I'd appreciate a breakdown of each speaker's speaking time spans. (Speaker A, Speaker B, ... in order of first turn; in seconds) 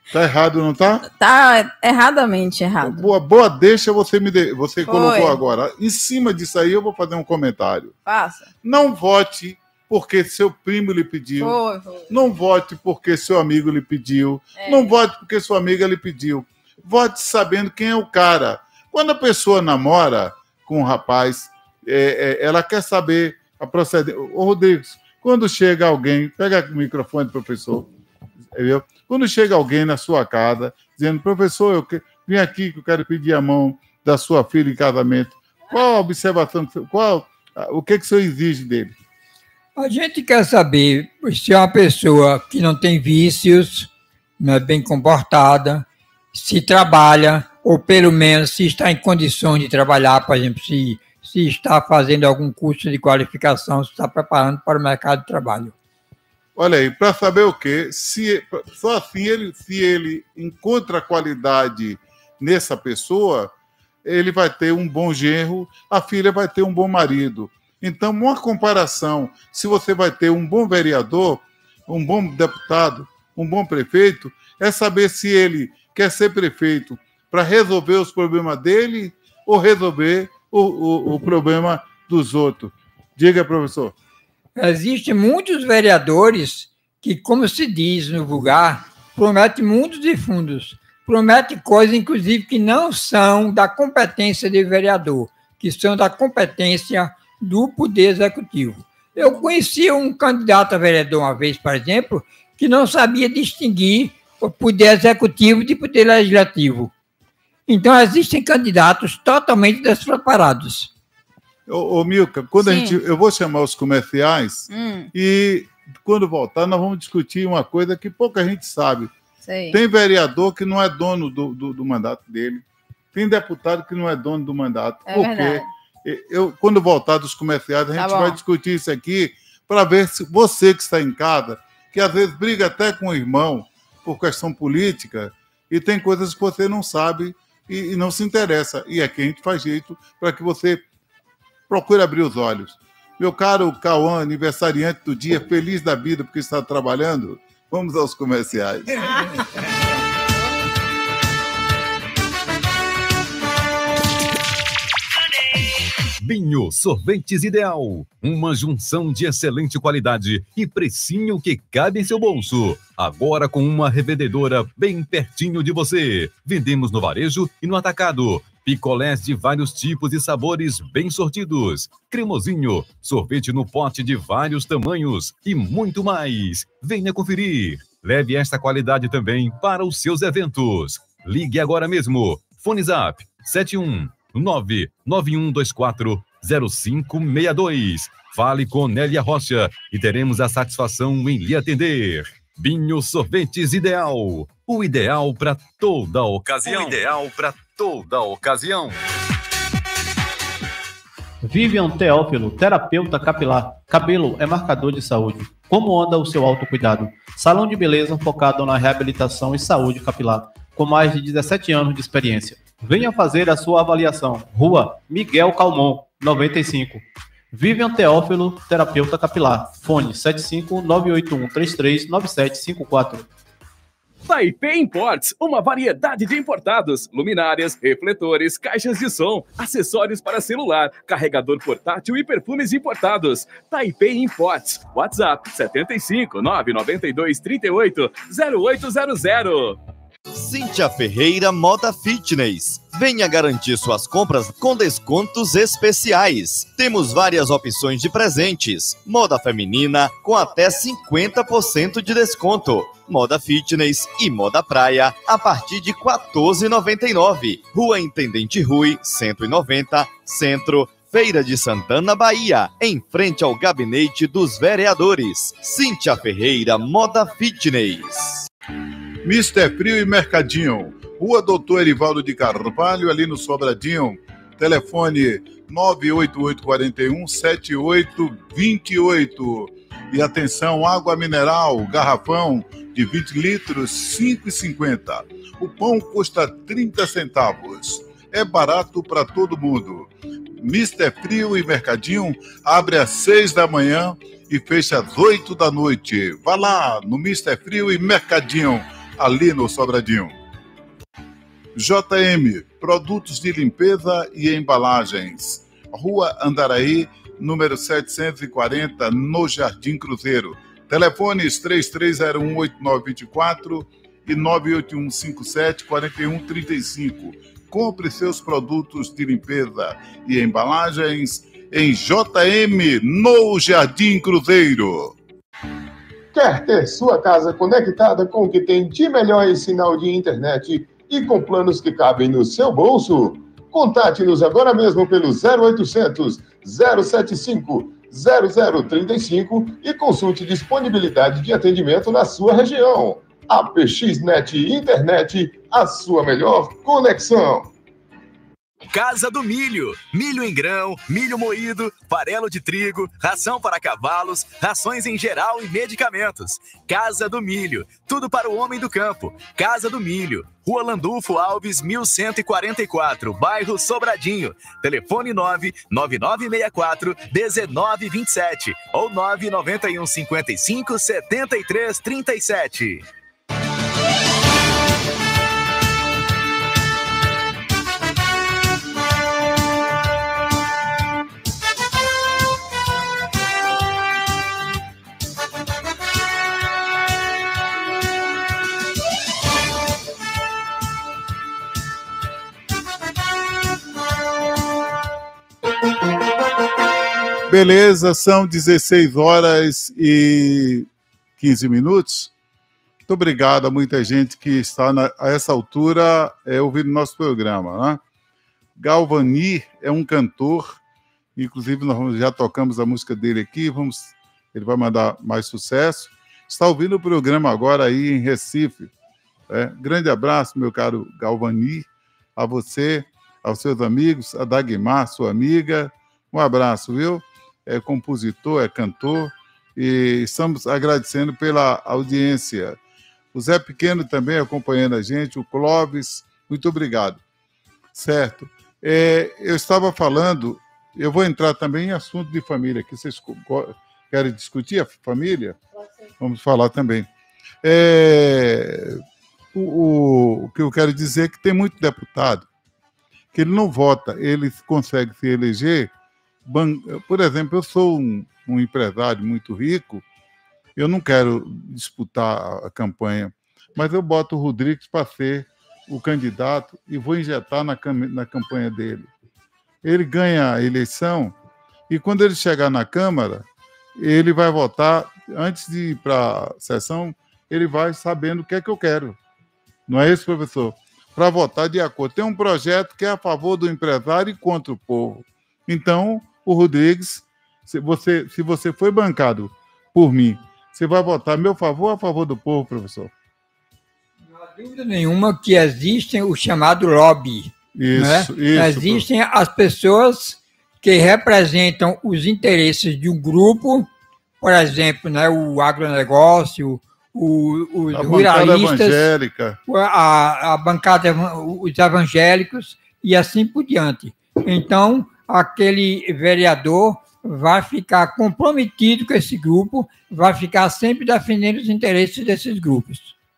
Speaker A: 0.1-1.0, 2.8-7.9, 8.6-11.6, 12.1-27.9, 28.5-38.9, 56.5-63.5, 64.0-83.9, 111.7-119.1, 119.7-140.8, 141.7-149.2, 269.2-300.3, 301.7-325.1, 397.5-402.3, 403.1-408.0, 408.8-410.8, 411.4-418.9, 419.5-432.8, 433.3-437.2, 437.9-445.6, 446.2-447.1, 447.6-449.0, 449.5-452.4, 453.3-455.9, 456.4-460.0, 460.8-469.1, 469.8-471.3, 471.9-479.2, 479.9-493.1, 497.7-499.1, 507.9-509.6
Speaker B: 1.1-3.1, 4.8-5.4, 8.0-8.5, 11.4-12.2, 14.6-15.0, 99.2-99.5, 112.6-113.0, 114.7-115.1, 119.4-119.8, 125.1-125.7, 128.0-128.4
Speaker C: 39.8-55.7, 84.5-106.9, 107.7-110.9, 494.2-503.9, 504.4-509.1, 509.7-523.1
Speaker D: 156.2-199.0
Speaker E: 196.5-197.3, 348.9-373.1
Speaker F: 201.4-223.3
Speaker G: 224.3-239.8
Speaker H: 240.3-268.5
Speaker I: 326.3-347.7